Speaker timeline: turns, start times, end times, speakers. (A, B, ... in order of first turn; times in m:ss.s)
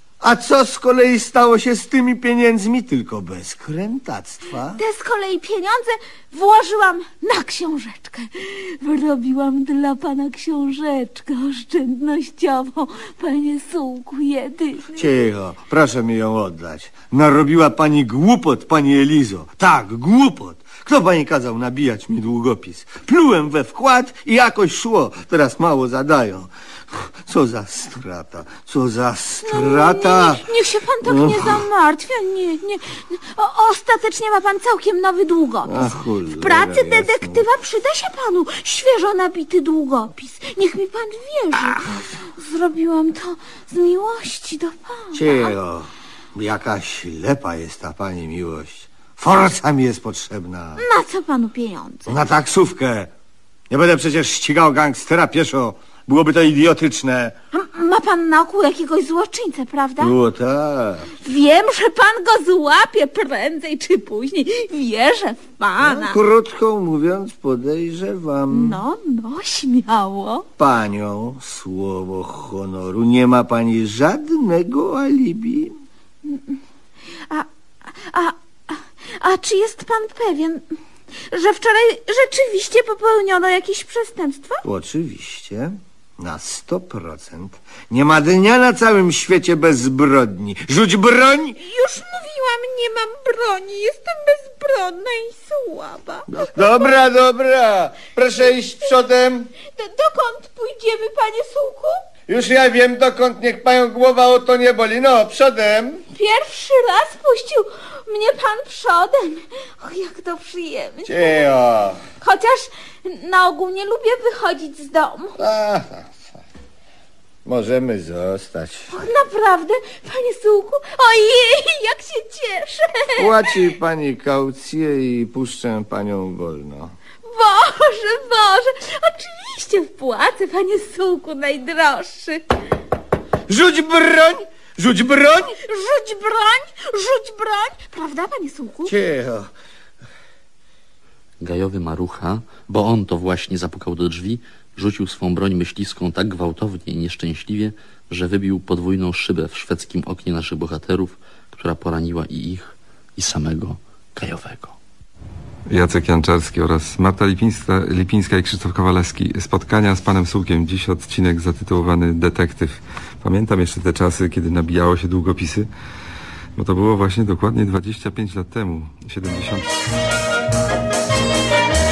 0:00.2-0:04.8 A
0:04.8-0:15.1 B
0:15.0-0:30.4 A
0:29.5-0:45.5 B
0:31.0-0:31.6 A
0:35.6-0:37.4 A
0:45.1-0:50.8 A
0:50.8-0:52.1 B
0:52.1-0:53.1 A
0:53.7-0:57.3 A
0:57.5-1:00.1 B
1:00.0-1:01.1 A
1:01.2-1:06.2 B
1:05.8-1:08.8 A
1:08.5-1:10.4 B
1:10.6-1:15.7 A
1:16.2-1:16.6 B
1:17.3-1:20.7 B
1:21.3-1:24.6 B
1:24.6-1:31.6 A
1:31.6-1:36.7 B
1:36.3-1:39.5 A
1:39.7-1:41.9 B
1:42.3-1:46.0 A
1:46.1-1:51.4 B
1:51.0-1:52.0 A
1:52.2-1:55.3 B
1:55.4-1:56.3 A
1:57.4-1:58.9 A
1:58.9-2:03.4 B
2:03.2-2:06.9 A
2:07.3-2:12.4 B
2:13.5-2:15.5 A
2:15.6-2:18.9 B
2:18.8-2:19.5 A
2:21.4-2:34.8 C
2:35.7-2:45.3 D
2:46.6-2:49.3 D